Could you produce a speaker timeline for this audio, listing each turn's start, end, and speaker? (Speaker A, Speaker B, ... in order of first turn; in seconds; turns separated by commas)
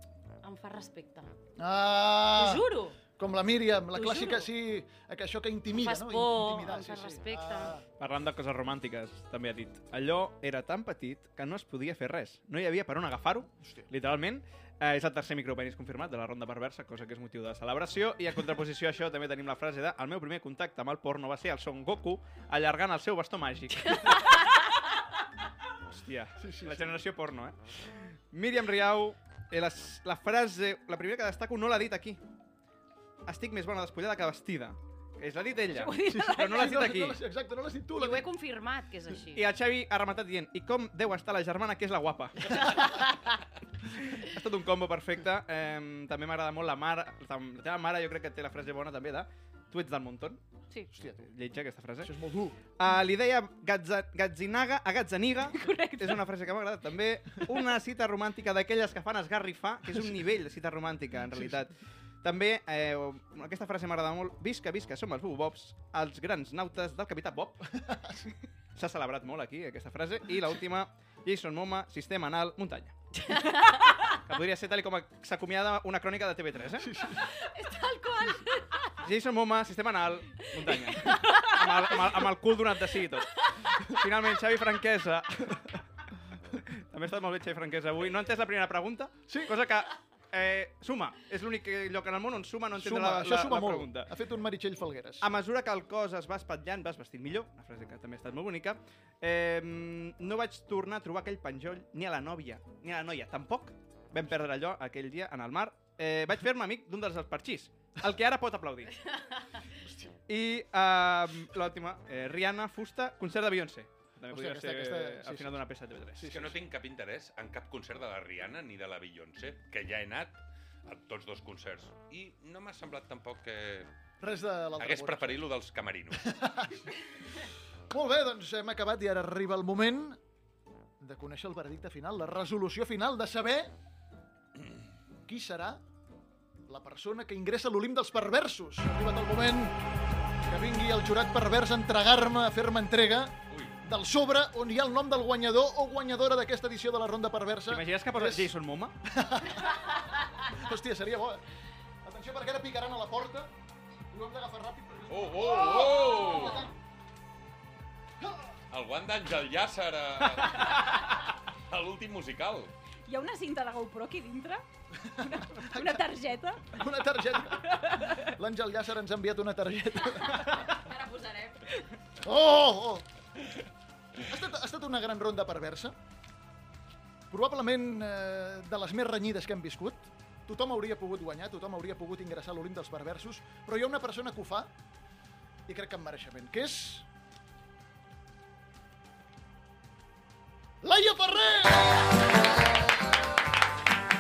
Speaker A: 0.4-1.3, Speaker B: 1.6-7.8, Speaker A: 2.4-3.0, Speaker A: 4.0-4.5, Speaker A: 5.7-7.8, Speaker C: 8.0-24.6, Speaker B: 13.6-13.9, Speaker C: 25.9-32.2, Speaker B: 26.4-27.0, Speaker C: 33.2-37.2, Speaker D: 35.7-36.8, Speaker B: 36.1-38.3, Speaker A: 38.0-39.5, Speaker C: 39.4-42.8, Speaker C: 44.2-50.4, Speaker B: 51.0-51.3, Speaker C: 51.2-52.1, Speaker B: 52.0-52.6, Speaker C: 52.7-67.6, Speaker D: 55.5-56.2, Speaker B: 61.2-61.6, Speaker C: 68.8-72.9, Speaker A: 73.3-73.8, Speaker C: 74.3-76.9, Speaker B: 76.8-77.2, Speaker A: 77.2-78.9, Speaker C: 79.0-85.8, Speaker A: 80.5-81.5, Speaker C: 86.5-94.1, Speaker B: 89.3-89.5, Speaker B: 92.8-95.3, Speaker C: 95.2-109.0, Speaker B: 109.8-110.1, Speaker C: 110.3-116.3, Speaker B: 114.3-115.6, Speaker B: 116.2-116.6, Speaker E: 116.3-123.9, Speaker B: 124.2-125.4, Speaker E: 124.8-126.2, Speaker B: 126.2-127.0, Speaker B: 127.9-130.2, Speaker B: 131.0-133.7, Speaker B: 135.3-135.8, Speaker B: 136.7-139.8, Speaker B: 140.5-148.5, Speaker E: 143.5-143.8, Speaker C: 147.7-148.9, Speaker B: 149.1-151.4, Speaker B: 152.0-153.5, Speaker B: 154.1-156.7, Speaker E: 155.1-156.7, Speaker E: 158.7-162.7, Speaker D: 163.1-164.6, Speaker B: 165.0-166.1, Speaker D: 165.6-166.8, Speaker B: 166.7-170.7, Speaker D: 167.6-168.3, Speaker A: 170.6-171.8, Speaker B: 172.2-173.1, Speaker B: 174.2-175.9, Speaker B: 177.3-184.7, Speaker B: 185.7-187.1, Speaker B: 190.8-192.3